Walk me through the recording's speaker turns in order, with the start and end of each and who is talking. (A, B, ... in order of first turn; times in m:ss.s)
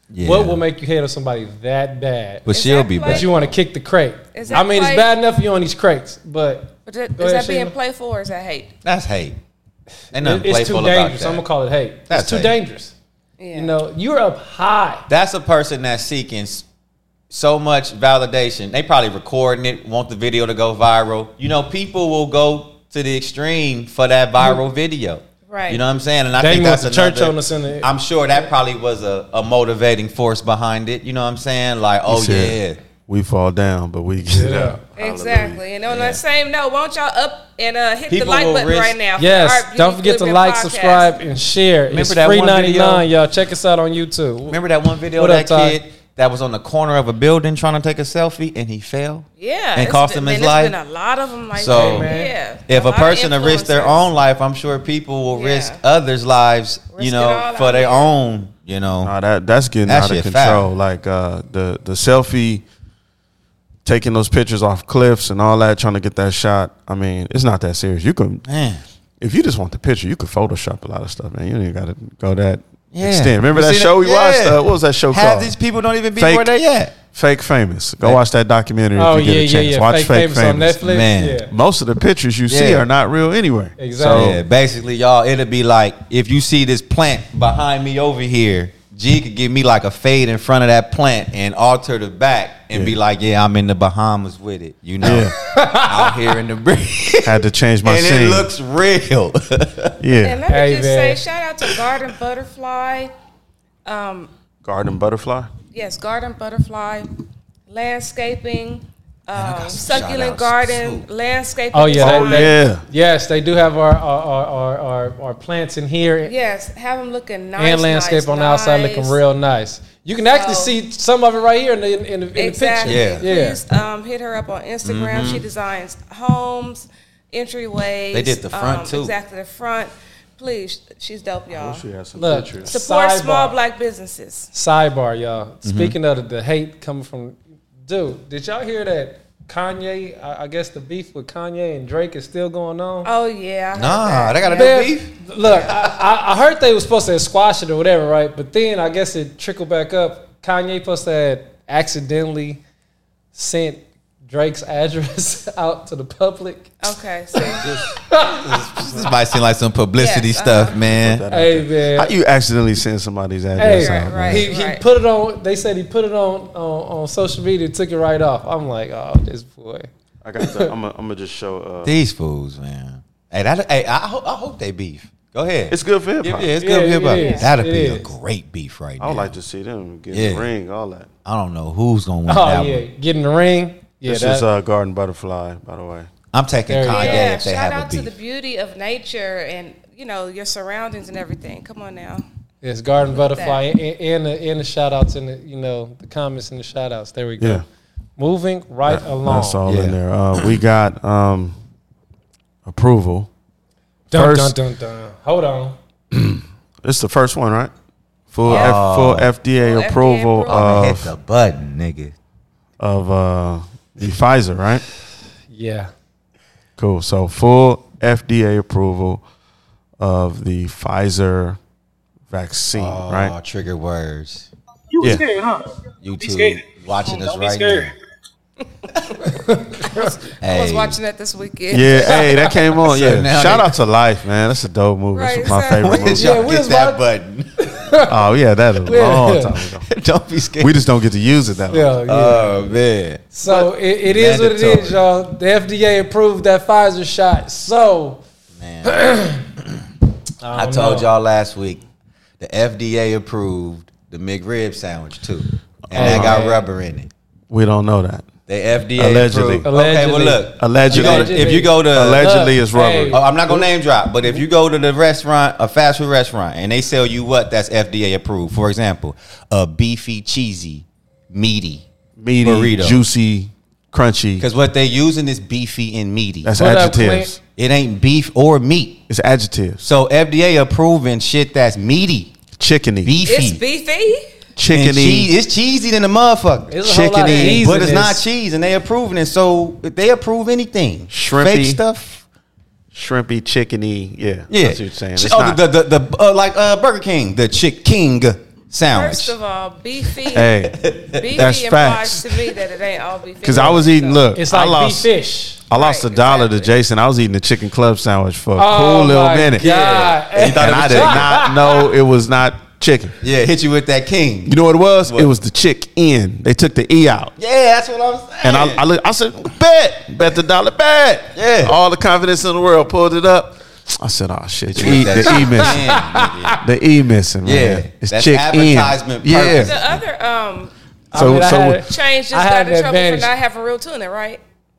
0:00.1-0:00.6 A
0:00.2-0:02.5 B
0:02.5-0:03.5 A
0:02.5-0:03.5 C
0:03.0-0:07.8 B
0:04.3-0:05.1 C
0:06.9-0:08.7 C
0:08.8-0:09.4 A
0:10.1-0:11.4 A
0:10.1-0:12.9 B
0:12.1-0:12.6 A
0:13.4-0:13.7 C
0:13.5-0:15.0 B
0:15.1-0:16.6 A
0:17.3-0:32.8 A
0:25.5-0:25.8 C
0:26.4-0:27.9 B
0:32.1-0:35.6 D
0:34.3-0:34.8 B
0:35.0-0:41.2 C
0:35.9-0:36.2 A
0:38.1-0:39.0 A
0:39.2-0:44.6 B
0:41.9-0:43.1 A
0:44.5-0:50.8 A
0:45.2-0:45.8 B
0:49.4-0:54.1 C
0:51.5-0:52.1 A
0:51.7-0:52.3 B
0:52.7-0:59.1 A
0:55.3-0:55.8 C
0:56.9-0:58.1 C
0:59.0-1:02.6 D
0:59.9-1:00.7 A
1:03.8-1:08.4 D
1:08.5-1:08.8 A
1:09.2-1:15.6 D
1:12.9-1:17.0 A
1:16.2-1:16.5 D
1:17.1-1:20.8 D
1:19.0-1:21.5 B
1:20.8-1:21.4 A
1:21.4-1:24.4 D
1:22.5-1:22.9 A
1:23.8-1:24.3 B
1:24.1-1:40.0 A
1:35.0-1:35.3 D
1:35.5-1:36.1 B
1:37.2-1:38.5 D
1:40.0-1:40.4 D
1:40.2-1:43.1 C
1:40.5-1:41.2 B
1:43.8-1:44.3 C
1:44.6-1:45.5 D
1:45.7-1:47.1 C
1:47.7-1:52.5 C
1:49.3-1:51.1 A
1:51.7-1:56.3 B
1:52.0-1:52.8 D
1:56.2-1:59.2 C
1:57.6-2:03.6 B
2:00.3-2:00.8 C
2:02.4-2:11.8 C
2:02.8-2:03.3 A
2:04.8-2:05.4 A
2:08.1-2:09.1 A
2:11.5-2:12.7 D
2:12.2-2:13.6 B
2:12.7-2:14.5 C
2:14.5-2:23.1 B
2:15.6-2:16.0 A
2:23.0-2:24.8 C
2:23.7-2:25.7 A
2:24.5-2:32.6 B
2:33.3-2:36.7 B
2:36.8-2:37.6 C
2:37.4-2:39.1 B
2:37.6-2:41.2 A
2:40.0-2:40.8 C
2:40.8-2:44.5 D
2:41.3-2:42.1 B
2:43.6-2:49.9 B
2:43.6-2:44.8 C
2:50.2-2:51.9 D
2:51.8-2:59.3 A
2:55.7-2:56.5 D
2:56.6-2:58.1 B
2:57.1-2:57.5 C
2:59.0-3:01.1 D
3:00.1-3:00.5 A
3:01.2-3:02.8 A
3:02.3-3:04.4 B
3:04.0-3:06.1 D
3:06.3-3:08.1 A
3:06.7-3:07.4 B
3:06.9-3:12.2 C
3:12.6-3:17.6 B
3:13.1-3:13.6 C
3:17.4-3:17.6 D
3:18.2-3:19.6 B
3:18.8-3:21.6 D
3:19.6-3:20.6 A
3:22.6-3:23.3 D
3:24.1-3:25.8 B
3:24.1-3:24.6 D
3:26.1-3:27.7 D
3:28.3-3:31.1 D
3:28.4-3:29.3 A
3:28.5-3:28.8 C
3:29.6-3:30.7 C
3:30.5-3:32.2 A
3:32.8-3:34.8 D
3:35.5-3:35.9 B
3:36.8-3:39.2 D
3:40.0-3:41.6 D
3:42.3-3:43.3 D
3:42.7-3:44.5 A
3:44.9-3:47.9 E
3:46.0-3:47.9 A
3:49.2-3:50.2 B
3:50.0-3:52.3 C
3:50.4-3:51.0 A
3:51.7-3:56.5 D
3:52.8-3:53.7 A
3:55.1-3:56.2 C
3:55.8-3:57.7 A
3:56.2-3:57.0 B
3:57.6-3:58.1 B
3:58.0-3:59.9 D
3:58.9-3:59.5 B
3:59.9-4:00.8 A
4:00.6-4:02.0 D
4:01.7-4:02.6 B
4:02.1-4:05.0 A
4:03.3-4:08.2 B
4:08.6-4:09.1 A
4:08.8-4:09.4 B
4:10.4-4:11.1 B
4:10.5-4:11.8 A
4:12.4-4:17.1 A
4:15.9-4:16.5 D
4:15.9-4:16.6 B
4:17.5-4:18.3 D
4:18.5-4:22.3 A
4:19.0-4:19.7 D
4:19.6-4:23.2 B
4:20.6-4:23.7 D
4:23.1-4:31.8 A
4:32.2-4:34.5 D
4:32.4-4:33.0 A
4:34.4-4:36.5 A
4:36.4-4:37.4 D
4:36.6-4:37.4 B
4:37.6-4:39.0 A
4:39.1-4:39.8 D
4:39.8-4:42.4 A
4:42.6-4:43.2 D
4:43.0-4:43.6 A
4:43.2-4:44.2 C
4:44.6-4:45.3 D
4:44.7-4:52.2 A
4:46.7-4:48.2 B
4:46.8-4:47.7 D
4:51.1-4:51.8 D
4:52.9-4:55.6 D
4:54.5-4:59.4 A
4:58.9-5:00.5 C
5:00.1-5:01.2 A
5:00.3-5:02.3 D
5:01.1-5:04.3 C
5:03.4-5:05.1 D
5:04.4-5:05.6 B
5:05.7-5:09.7 D
5:05.7-5:06.7 C
5:08.6-5:11.8 B
5:09.6-5:11.5 A
5:10.5-5:13.2 D
5:13.2-5:14.6 A
5:14.5-5:17.3 D
5:15.1-5:15.3 A
5:17.4-5:18.8 A
5:18.4-5:25.9 D
5:21.4-5:21.8 A
5:24.7-5:26.6 A
5:25.2-5:26.6 B
5:26.6-5:29.8 D
5:27.4-5:30.0 A
5:29.4-5:34.4 C
5:31.1-5:33.3 B
5:31.1-5:31.8 D